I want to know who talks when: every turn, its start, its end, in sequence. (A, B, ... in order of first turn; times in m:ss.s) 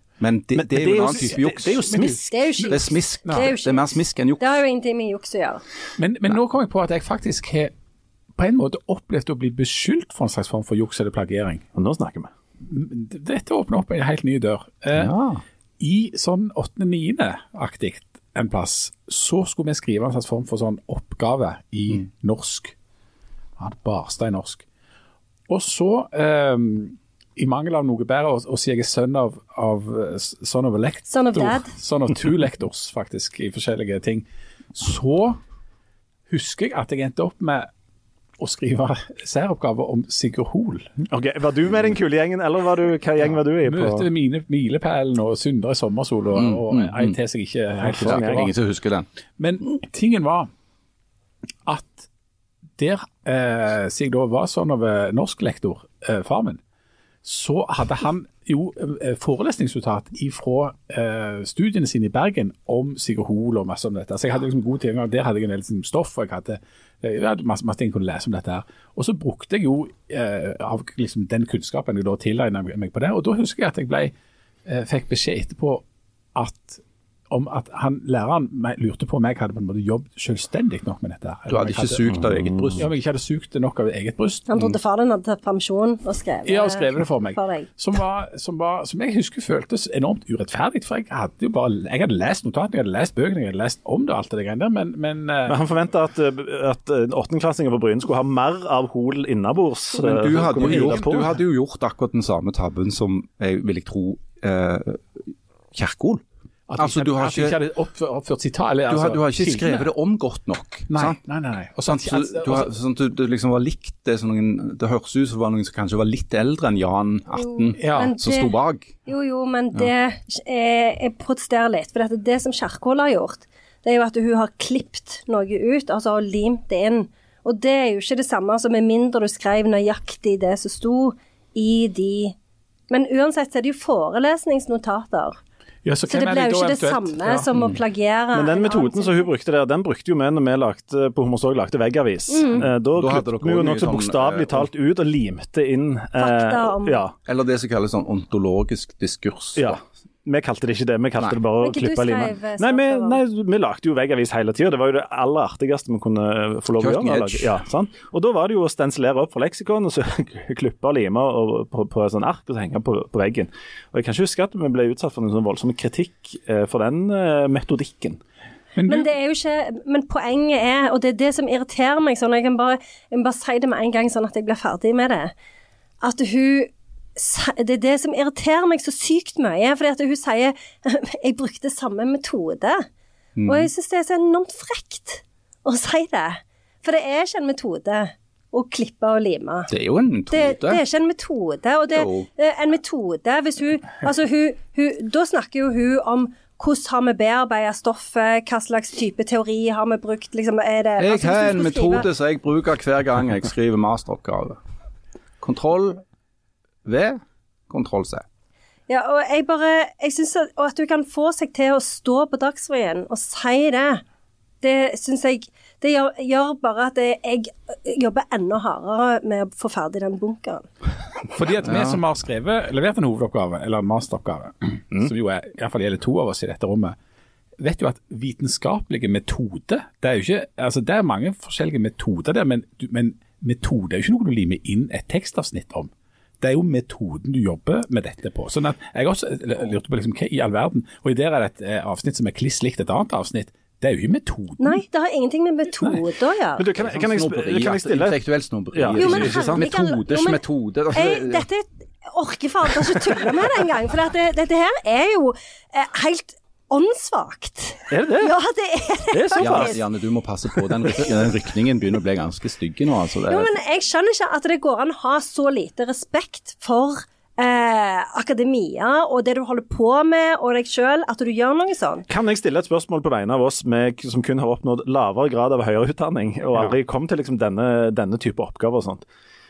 0:00.2-0:04.6 A
0:00.6-0:02.4 B
0:02.3-0:05.6 C
0:03.2-0:03.5 D
0:06.0-0:07.7 D
0:08.4-0:11.6 D
0:11.8-0:12.3 B
0:12.6-0:15.1 D
0:14.9-0:15.4 A
0:15.8-0:22.8 D
0:23.6-0:24.6 D
0:25.5-0:35.4 D
0:31.1-0:31.7 C
0:36.3-0:37.7 D
0:38.4-0:40.9 D
0:41.0-0:44.0 B
0:43.7-0:48.5 D
0:46.4-0:47.2 A
0:47.8-0:48.5 B
0:48.0-0:49.1 A
0:49.4-0:50.5 D
0:51.6-0:52.1 D
0:52.8-0:56.6 D
0:57.2-1:14.1 D
1:14.7-1:15.8 D
1:16.4-1:22.2 D
1:21.5-1:22.9 A
1:22.2-1:22.8 B
1:22.8-1:24.6 D
1:24.5-1:27.7 C
1:26.5-1:35.6 D
1:35.5-1:41.4 B
1:40.0-1:45.0 A
1:40.6-1:41.4 D
1:45.7-1:46.2 A
1:46.7-1:49.9 D
1:46.8-1:47.6 A
1:48.9-1:51.2 A
1:50.9-1:52.7 D
1:51.9-1:59.0 A
1:57.3-2:12.4 C
1:57.8-1:58.2 D
2:12.9-2:15.4 C
2:15.8-2:17.5 D
2:16.1-2:19.3 C
2:18.3-2:27.2 B
2:22.3-2:22.6 C
2:22.6-2:24.7 A
2:26.2-2:27.0 C
2:27.3-2:29.8 A
2:29.6-2:48.2 B
2:31.6-2:33.2 C
2:36.8-2:37.6 A
2:48.8-2:49.1 D
2:48.9-2:55.3 C
2:56.0-3:02.9 C
3:03.4-3:03.7 A
3:03.4-3:09.7 C
3:09.7-3:10.8 A
3:10.3-3:22.1 C
3:11.9-3:12.3 A
3:21.0-3:24.6 A
3:25.4-3:26.0 A
3:26.8-3:28.2 A
3:28.9-3:34.0 C
3:34.6-3:40.7 C
3:41.3-3:47.0 D
3:41.7-3:41.9 A
3:47.6-4:04.8 D
4:04.6-4:06.7 C
4:06.6-4:08.2 B
4:06.8-4:11.4 A
4:08.7-4:09.6 B
4:09.0-4:19.8 C
4:17.9-4:18.3 B
4:19.1-4:19.8 B
4:19.4-4:23.5 A
4:23.3-4:32.1 C
4:32.1-4:39.0 B